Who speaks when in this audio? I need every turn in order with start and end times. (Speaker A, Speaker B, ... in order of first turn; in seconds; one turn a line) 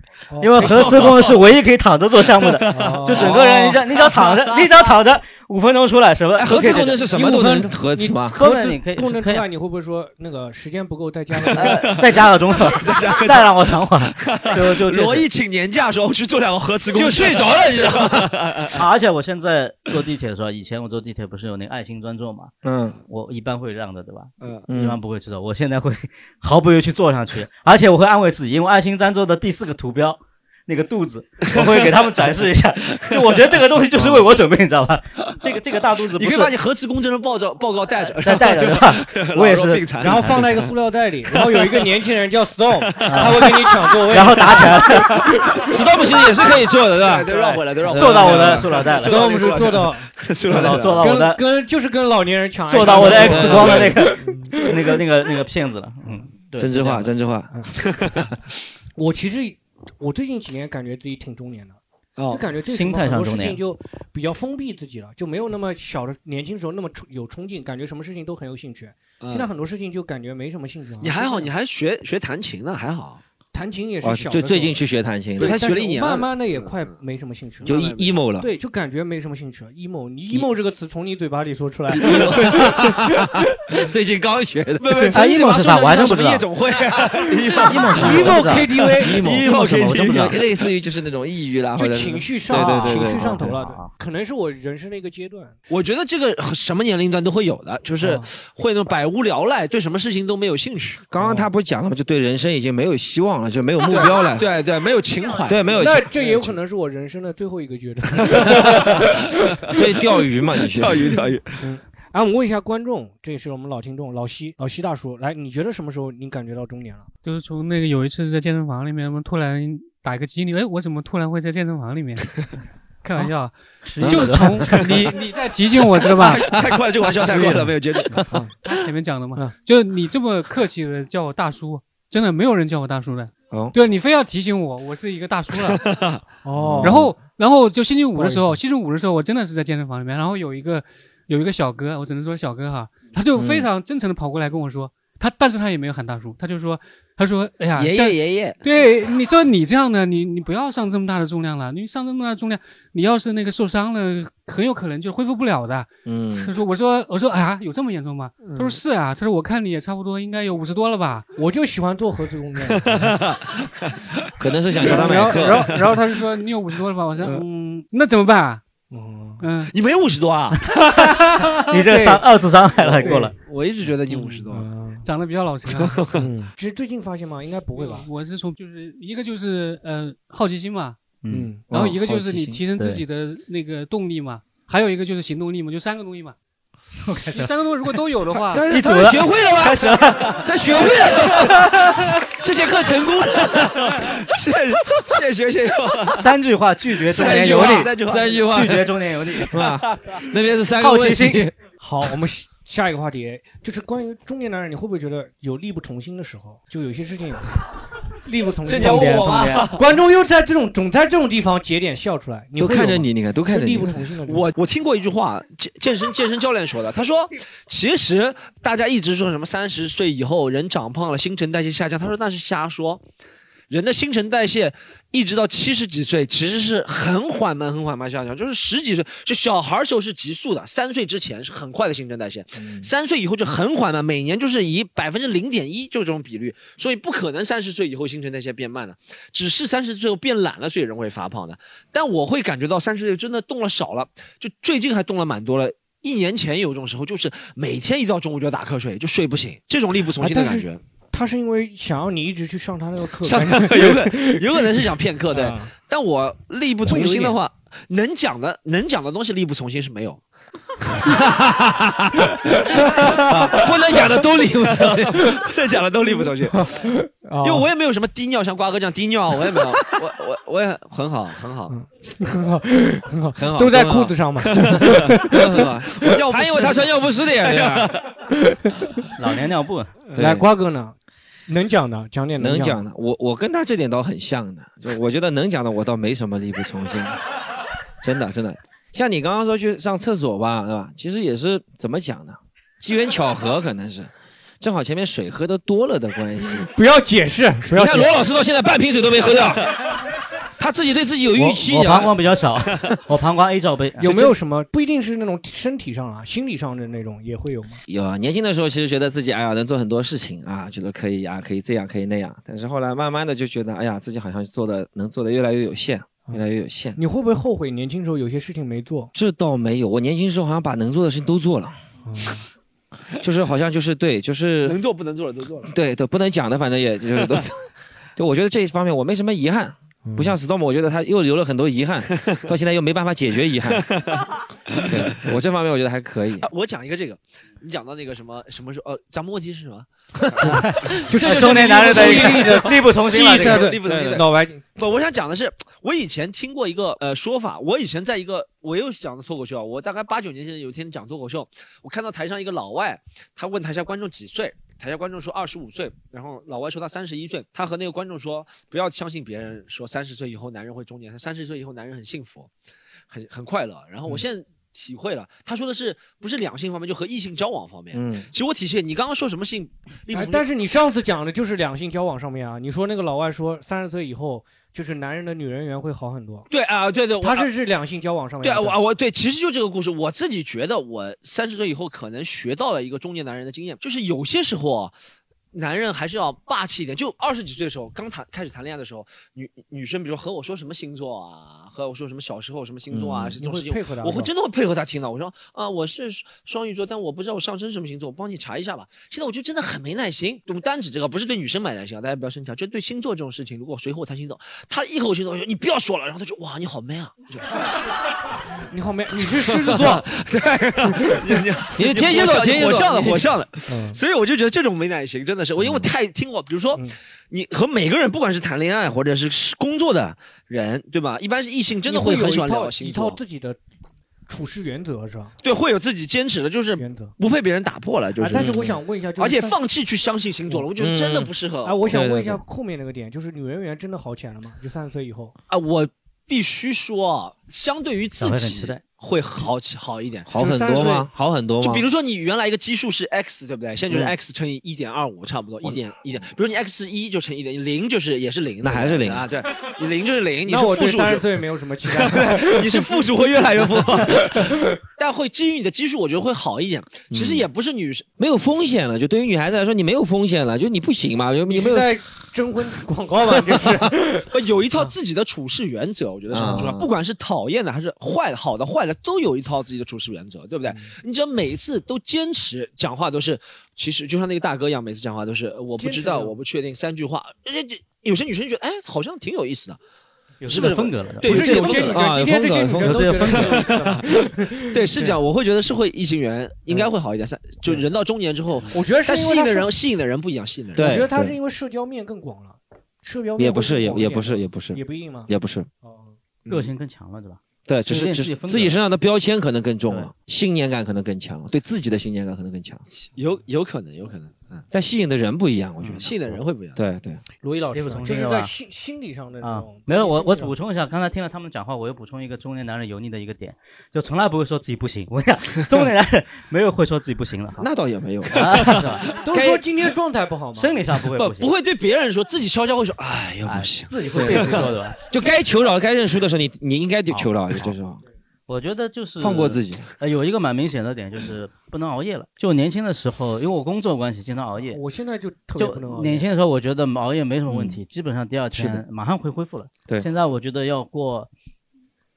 Speaker A: 0.3-1.2
Speaker B: 0.4-7.0
Speaker C: 0.6-1.4
Speaker C: 2.4-4.8
Speaker A: 2.7-3.8
Speaker C: 6.4-7.4
Speaker D: 6.8-8.4
Speaker A: 7.1-11.9
Speaker B: 8.3-9.5
Speaker C: 11.5-18.8
Speaker B: 11.5-15.3
Speaker D: 16.9-18.4
Speaker B: 18.7-22.5
Speaker D: 22.6-23.0
Speaker B: 23.1-36.5
Speaker D: 24.7-25.0
Speaker C: 31.5-32.2
Speaker C: 33.1-33.5
Speaker C: 36.1-40.7
Speaker B: 38.1-40.6
Speaker A: 40.0-45.7
Speaker C: 41.3-41.9
Speaker C: 42.9-44.7
Speaker B: 43.0-45.4
Speaker C: 45.5-51.2
Speaker D: 45.7-47.3
Speaker B: 47.3-49.4
Speaker D: 47.9-48.6
Speaker A: 49.0-50.1
Speaker B: 50.5-51.4
Speaker A: 51.0-54.1
Speaker B: 52.7-57.1
Speaker C: 52.8-54.7
Speaker D: 53.2-53.9
Speaker A: 54.8-55.0
Speaker D: 56.6-57.5
Speaker C: 57.8-58.2
Speaker A: 59.0-61.8
Speaker C: 62.2-62.5
Speaker A: 62.3-71.5
Speaker B: 62.6-63.6
Speaker C: 69.2-69.5
Speaker C: 71.0-73.2
Speaker A: 73.5-74.8
Speaker D: 74.0-75.6
Speaker A: 75.4-77.8
Speaker C: 75.4-77.0
Speaker C: 77.6-78.1
Speaker D: 77.6-78.5
Speaker A: 78.4-83.3
Speaker C: 81.9-82.8
Speaker D: 82.1-85.0
Speaker C: 84.8-90.5
Speaker B: 85.1-86.5
Speaker B: 87.6-90.4
Speaker A: 87.7-89.3
Speaker D: 89.2-93.3
Speaker A: 91.8-95.6
Speaker B: 92.5-93.9
Speaker C: 95.7-101.1
Speaker A: 98.0-98.3
Speaker D: 101.1-104.5
Speaker A: 101.2-101.5
Speaker C: 103.9-105.7
Speaker D: 105.4-106.5
Speaker A: 105.7-109.2
Speaker C: 108.3-109.1
Speaker D: 108.5-108.9
Speaker D: 109.7-111.2
Speaker C: 110.6-111.6
Speaker A: 111.6-117.1
Speaker E: 117.2-122.4
Speaker E: 123.0-126.5
Speaker B: 123.8-125.0
Speaker D: 124.0-124.5
Speaker C: 124.7-125.1
Speaker C: 126.0-128.7
Speaker A: 127.3-127.6
Speaker E: 128.7-135.9
Speaker C: 135.7-136.2
Speaker A: 136.4-137.3
Speaker D: 136.6-137.1
Speaker E: 136.8-161.3
Speaker A: 138.2-138.6
Speaker D: 143.4-143.7
Speaker C: 147.8-148.6
Speaker D: 156.1-156.5
Speaker C: 158.4-158.7
Speaker A: 161.4-163.2
Speaker C: 162.7-164.3
Speaker D: 164.4-165.7
Speaker E: 164.8-168.6
Speaker A: 164.9-165.3
Speaker C: 165.2-165.8
Speaker A: 168.9-169.5
Speaker E: 169.4-169.7
Speaker C: 169.7-170.7
Speaker A: 171.2-172.2
Speaker B: 171.7-173.3
Speaker C: 172.9-174.7
Speaker A: 173.0-173.3
Speaker A: 174.2-175.1
Speaker E: 175.0-176.0
Speaker C: 175.7-176.3
Speaker A: 176.1-178.1
Speaker E: 177.8-181.0
Speaker B: 181.2-181.6
Speaker A: 181.3-181.7
Speaker D: 181.7-182.6
Speaker E: 181.7-186.3
Speaker B: 182.7-183.0
Speaker B: 187.1-187.5
Speaker E: 187.3-188.7
Speaker D: 188.5-194.1
Speaker B: 188.6-190.5
Speaker C: 190.3-192.1
Speaker C: 192.7-196.3
Speaker B: 196.1-199.6
Speaker C: 197.0-198.5
Speaker D: 197.1-201.5
Speaker B: 200.8-201.5
Speaker A: 201.8-207.6
Speaker A: 208.2-214.5
Speaker C: 208.7-209.8
Speaker B: 208.7-209.7
Speaker D: 212.6-214.2
Speaker C: 214.3-223.0
Speaker C: 223.7-250.8
Speaker A: 250.2-255.7
Speaker C: 253.2-260.2
Speaker A: 256.8-257.4
Speaker D: 261.1-265.3
Speaker C: 262.8-266.9
Speaker A: 262.9-263.3
Speaker A: 266.5-267.7
Speaker C: 267.4-271.8
Speaker A: 271.7-275.9
Speaker D: 273.4-274.2
Speaker C: 274.5-275.0
Speaker D: 275.2-278.0
Speaker C: 276.0-278.1
Speaker A: 278.5-278.7
Speaker B: 279.2-279.9
Speaker A: 280.1-281.0
Speaker D: 280.1-280.5
Speaker A: 281.5-282.8
Speaker D: 282.4-287.2
Speaker D: 288.0-296.7
Speaker A: 296.7-298.1
Speaker D: 297.7-299.8
Speaker D: 300.6-302.1
Speaker B: 301.6-304.3
Speaker A: 304.0-307.8
Speaker D: 307.9-317.0
Speaker A: 317.0-319.1
Speaker D: 319.1-321.8
Speaker A: 322.1-322.5
Speaker D: 323.2-324.8
Speaker C: 324.6-325.7
Speaker D: 325.7-327.5
Speaker D: 328.2-333.9
Speaker A: 330.1-330.4
Speaker C: 333.9-335.2
Speaker D: 334.8-336.5
Speaker C: 336.4-362.5
Speaker A: 340.4-344.6
Speaker B: 340.7-343.7
Speaker D: 341.2-342.6
Speaker D: 343.8-344.3
Speaker C: 363.1-370.5
Speaker D: 367.9-368.3
Speaker A: 370.1-376.5
Speaker C: 376.5-377.5
Speaker A: 377.2-378.8
Speaker C: 378.4-384.9
Speaker C: 385.5-407.6
Speaker D: 392.9-393.4
Speaker A: 393.4-394.3
Speaker A: 408.7-410.1
Speaker C: 409.2-423.2
Speaker D: 411.8-413.4
Speaker A: 413.7-414.0
Speaker D: 415.6-415.9
Speaker A: 421.9-423.6
Speaker A: 424.3-425.3
Speaker C: 425.4-432.0
Speaker A: 426.8-427.1
Speaker A: 428.2-429.6
Speaker D: 428.4-428.6
Speaker D: 430.8-431.3
Speaker A: 431.6-435.4
Speaker D: 431.9-432.4
Speaker C: 435.5-440.3
Speaker B: 438.2-438.8
Speaker D: 440.3-441.9
Speaker A: 440.4-441.1
Speaker C: 441.6-458.1
Speaker D: 448.6-449.3
Speaker A: 450.5-453.1
Speaker A: 453.8-454.8
Speaker D: 457.1-457.5
Speaker D: 458.2-461.9
Speaker A: 461.5-464.9
Speaker C: 464.3-479.8
Speaker D: 466.3-466.9
Speaker A: 475.8-476.4
Speaker B: 480.4-482.0
Speaker C: 480.4-482.1
Speaker A: 481.2-485.2
Speaker D: 481.9-483.2
Speaker B: 482.8-483.6
Speaker C: 483.2-484.0
Speaker C: 484.7-491.0
Speaker A: 488.7-489.7
Speaker D: 490.8-491.4
Speaker A: 490.8-495.3
Speaker D: 493.4-495.7
Speaker A: 495.8-496.2
Speaker B: 496.5-498.8
Speaker D: 497.7-502.8
Speaker C: 503.1-504.7
Speaker D: 504.7-506.2
Speaker C: 506.0-506.8
Speaker D: 506.8-507.2
Speaker A: 507.4-510.6
Speaker B: 507.7-508.5
Speaker B: 509.4-517.7
Speaker D: 517.6-518.6
Speaker B: 518.3-519.0
Speaker C: 518.4-519.2
Speaker A: 519.2-520.8
Speaker D: 519.3-519.6
Speaker B: 520.5-521.5
Speaker C: 521.1-524.8
Speaker B: 523.5-525.0
Speaker D: 524.1-528.0
Speaker B: 527.1-527.7
Speaker B: 528.5-534.8
Speaker D: 529.2-529.9
Speaker A: 534.6-536.3
Speaker B: 535.6-541.3
Speaker D: 537.5-537.8
Speaker D: 538.5-538.8